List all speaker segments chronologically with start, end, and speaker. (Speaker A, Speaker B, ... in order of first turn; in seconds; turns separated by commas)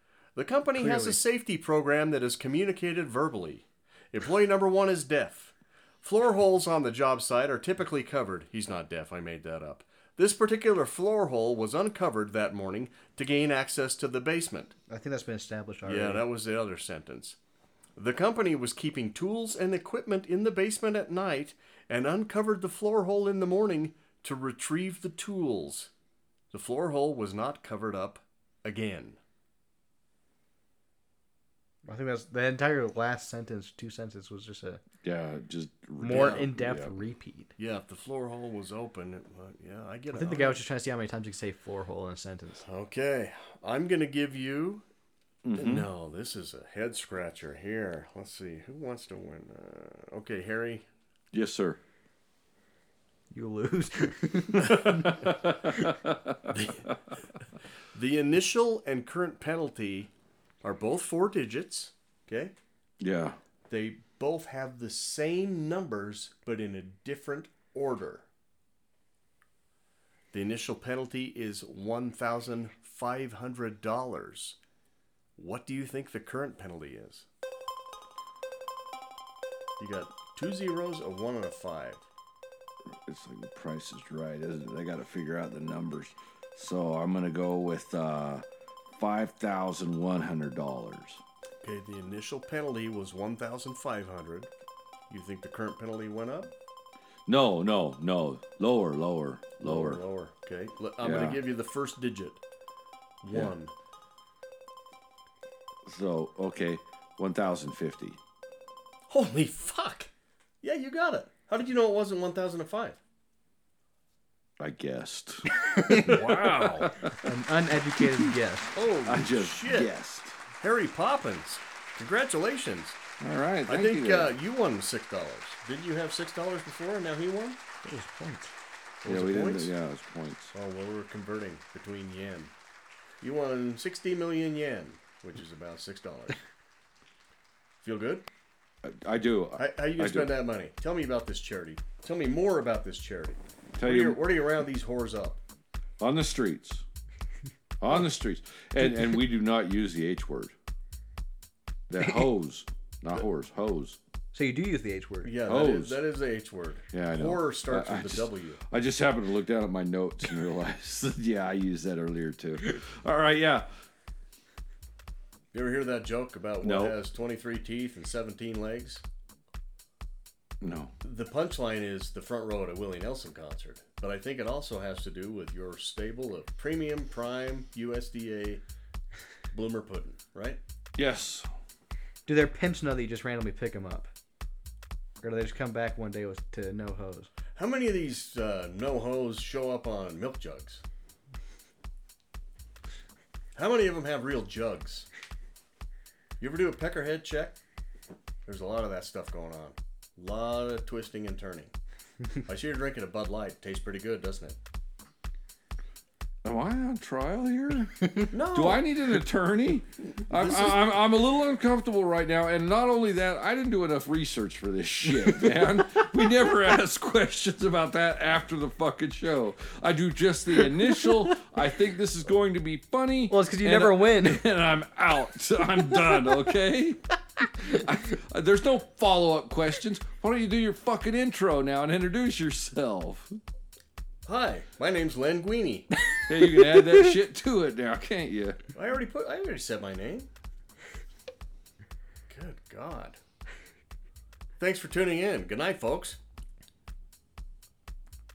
Speaker A: 0.3-14.7, Speaker B: 0.7-1.2, Speaker B: 14.9-16.2, Speaker A: 15.8-17.4, Speaker A: 18.0-25.9, Speaker A: 26.5-29.2, Speaker B: 31.8-34.8, Speaker C: 35.0-37.0, Speaker B: 36.0-37.5, Speaker A: 36.1-36.4, Speaker A: 37.6-40.6, Speaker B: 40.1-42.6, Speaker A: 42.6-44.8, Speaker C: 45.4-45.9, Speaker A: 45.5-50.8, Speaker C: 51.3-51.8, Speaker B: 53.3-55.1, Speaker C: 54.8-56.9, Speaker A: 56.5-56.9, Speaker A: 57.9-60.1, Speaker A: 60.6-62.5, Speaker C: 63.0-63.4, Speaker A: 63.7-68.2, Speaker A: 70.3-74.6, Speaker A: 75.4-77.2, Speaker A: 79.8-82.0, Speaker C: 82.9-88.4, Speaker C: 89.0-91.2, Speaker A: 91.6-94.5, Speaker A: 95.1-96.5, Speaker C: 97.3-100.0, Speaker A: 99.6-102.4, Speaker C: 101.0-101.4, Speaker A: 103.2-103.7, Speaker C: 105.8-108.2, Speaker A: 109.1-110.1, Speaker A: 110.6-113.0, Speaker C: 114.6-117.2, Speaker B: 115.5-116.2, Speaker A: 116.0-117.0, Speaker B: 117.2-118.7, Speaker A: 118.7-119.9, Speaker C: 119.0-120.3, Speaker A: 120.6-123.0, Speaker C: 123.2-124.3, Speaker A: 123.7-127.6, Speaker B: 127.8-128.5, Speaker A: 129.0-129.7, Speaker C: 129.0-130.5, Speaker A: 130.5-132.5, Speaker A: 133.2-136.4, Speaker A: 137.8-138.2, Speaker C: 138.8-140.3, Speaker A: 139.6-145.4, Speaker C: 143.8-144.2, Speaker C: 146.0-146.8, Speaker C: 147.8-150.5, Speaker C: 151.9-154.0, Speaker B: 154.3-155.3, Speaker A: 155.2-158.6, Speaker C: 155.4-156.0, Speaker C: 156.9-163.7, Speaker A: 165.5-169.0, Speaker C: 166.6-166.9, Speaker C: 170.6-170.9, Speaker A: 171.0-178.6, Speaker A: 179.5-180.6, Speaker C: 181.0-181.5, Speaker B: 182.2-184.1, Speaker B: 185.2-187.3, Speaker A: 187.6-190.8, Speaker A: 193.5-195.1, Speaker A: 196.4-197.6, Speaker A: 198.4-201.7, Speaker A: 202.4-204.6, Speaker C: 206.4-233.4, Speaker A: 208.3-208.8, Speaker A: 210.3-210.8, Speaker B: 223.3-224.4, Speaker A: 234.2-235.9, Speaker C: 236.2-238.6, Speaker B: 236.4-236.9, Speaker A: 238.7-240.3, Speaker A: 242.3-243.2, Speaker A: 244.6-246.2